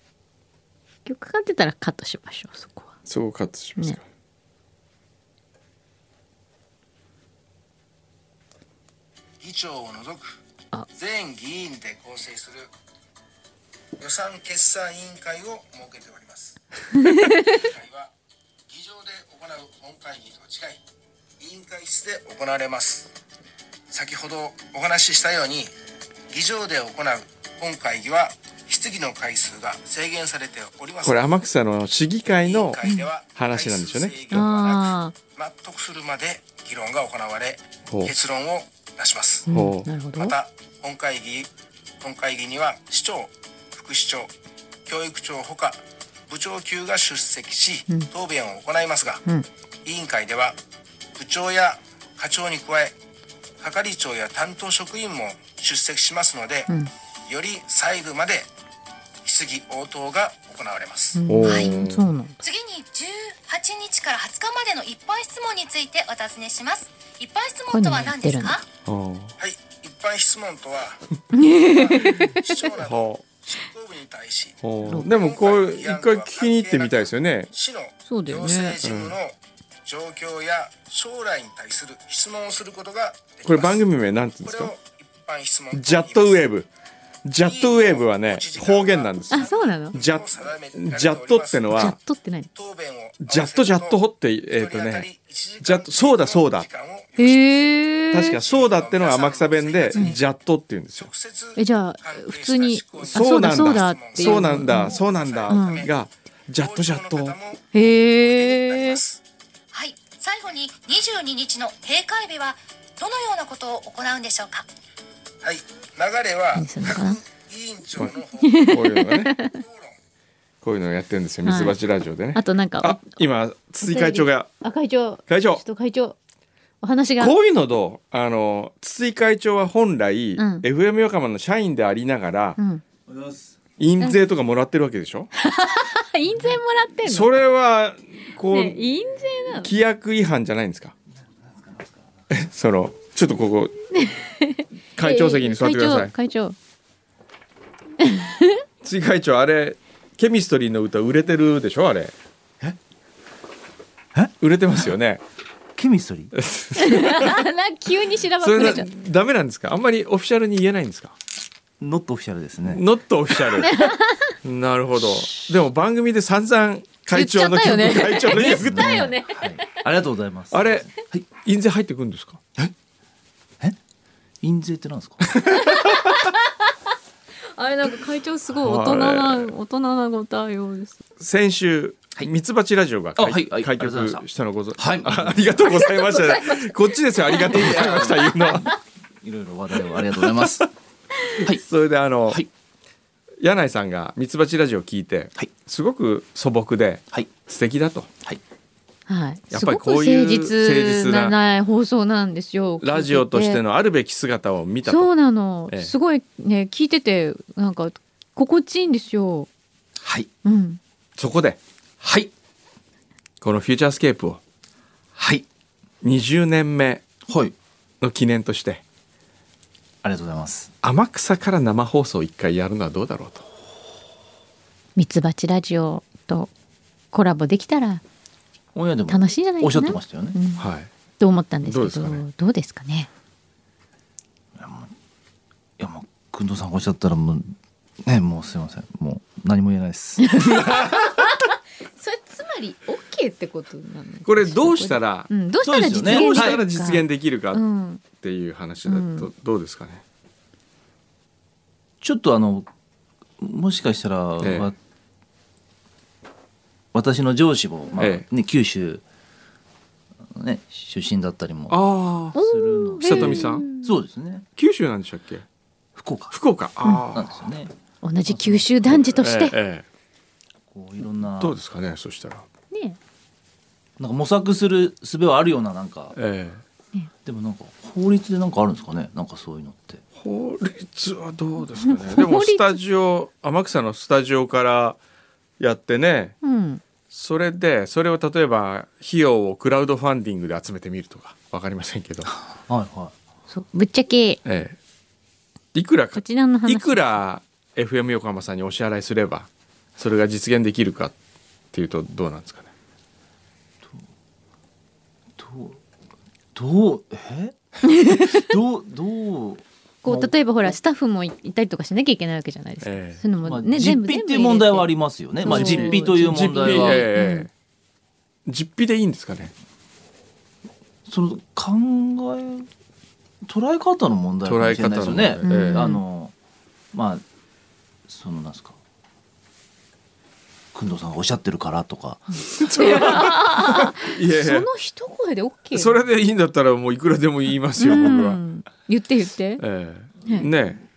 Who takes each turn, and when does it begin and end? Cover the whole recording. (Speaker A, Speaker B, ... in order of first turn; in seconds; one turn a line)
Speaker A: 1.1-2.9
Speaker B: 3.0-4.0
Speaker C: 9.4-10.3
Speaker C: 10.9-12.7
Speaker C: 14.0-16.6
Speaker A: 16.9-17.6
Speaker C: 17.1-18.1
Speaker C: 18.7-20.8
Speaker C: 21.4-23.1
Speaker C: 23.9-25.7
Speaker C: 26.3-31.3
Speaker B: 31.0-32.8
Speaker C: 32.4-39.5
Speaker A: 32.8-33.1
Speaker B: 33.3-34.5
Speaker A: 34.3-35.1
Speaker B: 37.9-38.1
Speaker A: 39.5-40.4
Speaker B: 39.5-39.9
Speaker C: 40.2-44.3
Speaker C: 44.9-49.2
Speaker C: 49.8-50.6
Speaker C: 51.1-52.9
Speaker C: 53.6-56.7
Speaker C: 57.3-58.5
Speaker C: 59.2-61.2
Speaker A: 61.1-62.4
Speaker B: 61.3-62.0
Speaker D: 61.4-61.8
Speaker D: 62.4-68.6
Speaker A: 67.7-68.6
Speaker B: 68.8-69.3
Speaker C: 69.4-83.8
Speaker A: 71.3-72.7
Speaker B: 72.8-73.2
Speaker B: 74.6-77.5
Speaker A: 74.9-75.1
Speaker A: 78.1-78.8
Speaker B: 78.8-79.2
Speaker B: 83.4-84.7
Speaker C: 84.4-86.5
Speaker B: 85.7-86.7
Speaker B: 87.2-91.9
Speaker C: 87.4-92.0
Speaker A: 89.3-90.0
Speaker A: 91.7-92.5
Speaker C: 92.5-94.0
Speaker B: 93.2-95.1
Speaker C: 94.5-97.7
Speaker B: 95.6-96.7
Speaker A: 97.2-98.4
Speaker B: 98.1-101.1
Speaker C: 98.3-100.2
Speaker C: 101.0-105.9
Speaker A: 101.5-105.9
Speaker B: 103.1-107.3
Speaker C: 106.6-109.2
Speaker A: 107.7-109.0
Speaker D: 109.7-114.6
Speaker C: 115.4-118.8
Speaker A: 116.5-117.2
Speaker A: 118.4-119.6
Speaker B: 118.7-119.3
Speaker C: 119.4-119.9
Speaker B: 120.6-124.5
Speaker A: 121.4-121.8
Speaker A: 122.3-123.0
Speaker A: 123.8-126.2
Speaker B: 125.3-125.6
Speaker A: 126.8-127.3
Speaker B: 127.2-132.6
Speaker A: 130.4-130.6
Speaker A: 132.6-132.8
Speaker E: 133.1-133.5
Speaker B: 133.8-135.3
Speaker A: 135.3-137.3
Speaker B: 137.1-138.8
Speaker A: 138.5-139.7
Speaker B: 139.6-140.9
Speaker E: 141.4-142.0
Speaker B: 142.3-143.7
Speaker A: 143.9-146.6
Speaker B: 144.9-146.1
Speaker A: 148.0-148.6
Speaker B: 148.8-152.1
Speaker B: 154.4-155.2
Speaker E: 155.8-156.3
Speaker B: 156.3-157.4
Speaker A: 156.8-158.9
Speaker B: 158.4-161.1
Speaker E: 161.8-162.8
Speaker B: 162.7-163.8
Speaker A: 163.6-164.3
Speaker B: 164.4-169.1
Speaker A: 167.1-169.8
Speaker E: 168.3-171.3
Speaker B: 170.5-172.4
Speaker E: 174.4-175.4
Speaker A: 175.5-176.5
Speaker A: 177.5-181.0
Speaker B: 178.5-179.5
Speaker B: 181.2-188.7
Speaker E: 183.2-184.2
Speaker E: 184.8-185.8
Speaker A: 185.7-188.7
Speaker E: 187.5-188.6
Speaker E: 189.2-190.7
Speaker B: 190.3-190.6
Speaker B: 191.4-192.4
Speaker B: 193.4-198.1
Speaker A: 199.1-203.6
Speaker B: 199.5-201.3
Speaker B: 202.8-205.1
Speaker A: 204.8-209.5
Speaker E: 210.0-210.3
Speaker A: 210.4-210.8
Speaker B: 211.2-211.6
Speaker E: 212.0-212.3
Speaker B: 213.4-214.4
Speaker E: 215.1-215.5
Speaker B: 216.0-217.0
Speaker E: 217.3-217.5
Speaker B: 218.0-218.8
Speaker E: 220.0-220.7
Speaker B: 220.8-223.4
Speaker A: 224.9-226.5
Speaker A: 227.1-228.0
Speaker E: 228.7-230.4
Speaker A: 229.1-230.7
Speaker B: 230.6-230.9
Speaker A: 231.2-233.1
Speaker B: 231.6-232.2
Speaker E: 234.6-234.9
Speaker E: 235.8-240.6
Speaker A: 240.2-248.0
Speaker B: 244.2-250.0
Speaker E: 245.6-246.6
Speaker A: 248.8-249.3
Speaker E: 252.0-252.7
Speaker E: 253.4-254.8
Speaker B: 254.4-254.7
Speaker E: 256.9-259.0
Speaker B: 258.0-258.2
Speaker E: 260.3-264.4
Speaker B: 261.7-262.4
Speaker A: 262.3-263.9
Speaker B: 263.0-263.6
Speaker B: 264.6-265.4
Speaker E: 265.9-266.4
Speaker B: 266.3-267.4
Speaker E: 267.1-267.7
Speaker A: 268.0-269.6
Speaker E: 268.3-269.0
Speaker B: 269.1-269.8
Speaker E: 270.7-271.6
Speaker B: 271.4-272.4
Speaker A: 272.7-273.0
Speaker E: 274.0-276.1
Speaker B: 276.1-276.6
Speaker E: 277.2-280.0
Speaker B: 280.2-285.0
Speaker A: 281.8-282.8
Speaker B: 285.6-286.4
Speaker A: 286.4-286.8
Speaker B: 287.1-292.3
Speaker E: 292.5-293.1
Speaker A: 293.5-294.4
Speaker B: 294.4-294.8
Speaker B: 295.7-301.1
Speaker A: 296.1-297.1
Speaker B: 301.7-302.7
Speaker E: 305.4-305.8
Speaker E: 306.5-310.7
Speaker A: 307.8-308.5
Speaker A: 310.0-317.5
Speaker B: 312.8-313.2
Speaker E: 313.4-317.1
Speaker B: 315.4-317.5
Speaker B: 318.4-319.5
Speaker E: 321.1-322.7
Speaker E: 323.4-326.3
Speaker B: 324.4-325.9
Speaker A: 325.4-326.0
Speaker E: 326.9-327.2
Speaker E: 328.1-328.8
Speaker E: 330.7-332.5
Speaker A: 332.5-335.9
Speaker B: 332.6-334.7
Speaker B: 335.7-338.4
Speaker A: 337.8-339.6
Speaker B: 339.6-340.8